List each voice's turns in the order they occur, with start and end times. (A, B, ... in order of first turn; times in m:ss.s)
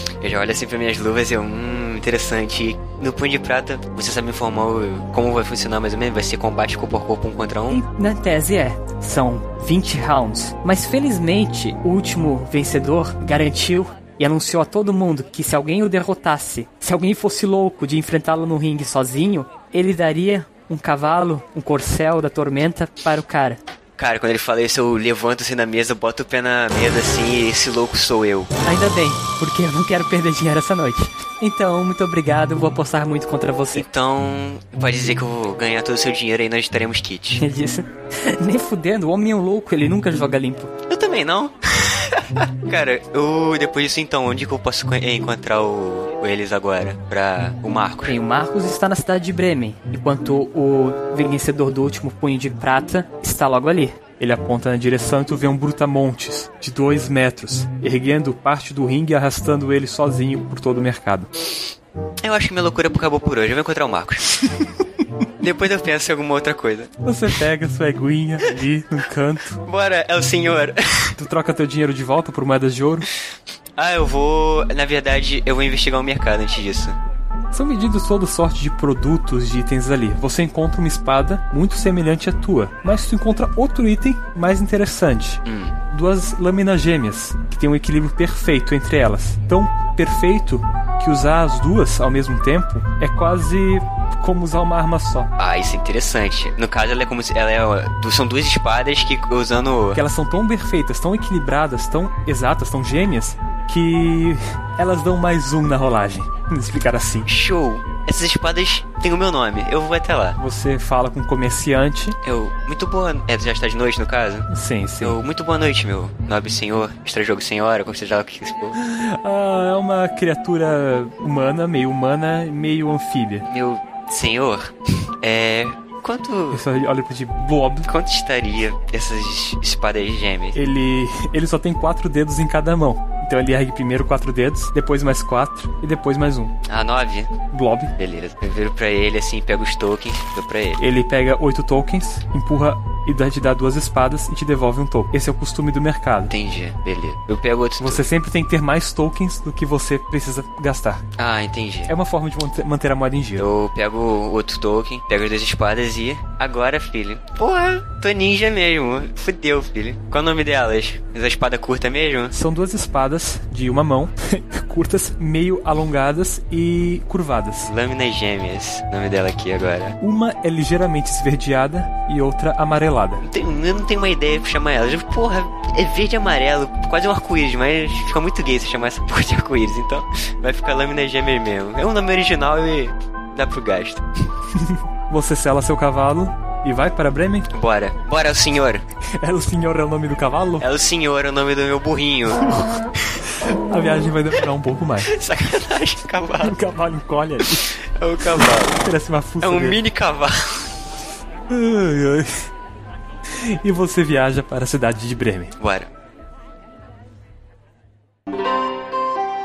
0:00.2-0:07.8 A
0:07.7-0:23.6 B
0:24.0-0:28.5 A
0:28.6-0:33.8 B
0:33.7-0:37.4 A
0:37.4-0:40.7 B
0:40.9-0:48.2 A
0:48.1-0:54.0 B
0:54.2-1:01.3 C
1:02.2-1:04.5 A
1:05.4-1:06.9 A
1:07.0-1:09.6 C
1:09.6-1:11.2 A
1:11.2-1:13.1 C
1:13.8-1:17.0 A
1:17.5-1:35.3 C
1:25.5-1:25.7 A
1:35.4-1:40.0 A
1:40.0-1:47.3 C
1:47.3-1:50.4 A
1:50.4-1:52.2 C
1:52.2-1:54.5 A
1:54.5-1:55.2 C
1:55.0-1:58.8 A
1:58.8-2:03.5 C
2:03.5-2:06.6 A
2:06.5-2:07.9 C
2:07.9-2:10.6 A
2:10.6-2:16.5 C
2:16.7-2:17.4 A
2:17.5-2:17.9 C
2:18.0-2:20.8 A
2:20.8-2:26.3 C
2:26.3-2:28.0 A
2:27.8-2:31.0 C
2:31.2-2:31.9 A
2:31.9-2:33.5 C
2:33.4-2:42.4 A
2:42.3-2:47.7 C
2:47.6-2:50.0 A
2:50.0-2:53.2 C
2:53.2-3:04.0 A
3:04.5-3:07.5 C
3:07.5-3:08.8 A
3:09.2-3:10.7 C
3:10.6-3:13.1 A
3:13.4-3:15.1 C
3:15.1-3:16.6 A
3:16.4-3:17.7 C
3:17.5-3:18.8 A
3:18.4-3:19.8 C
3:19.4-3:20.8 A
3:21.5-3:22.3 C
3:23.3-3:25.6 C
3:25.6-3:25.9 A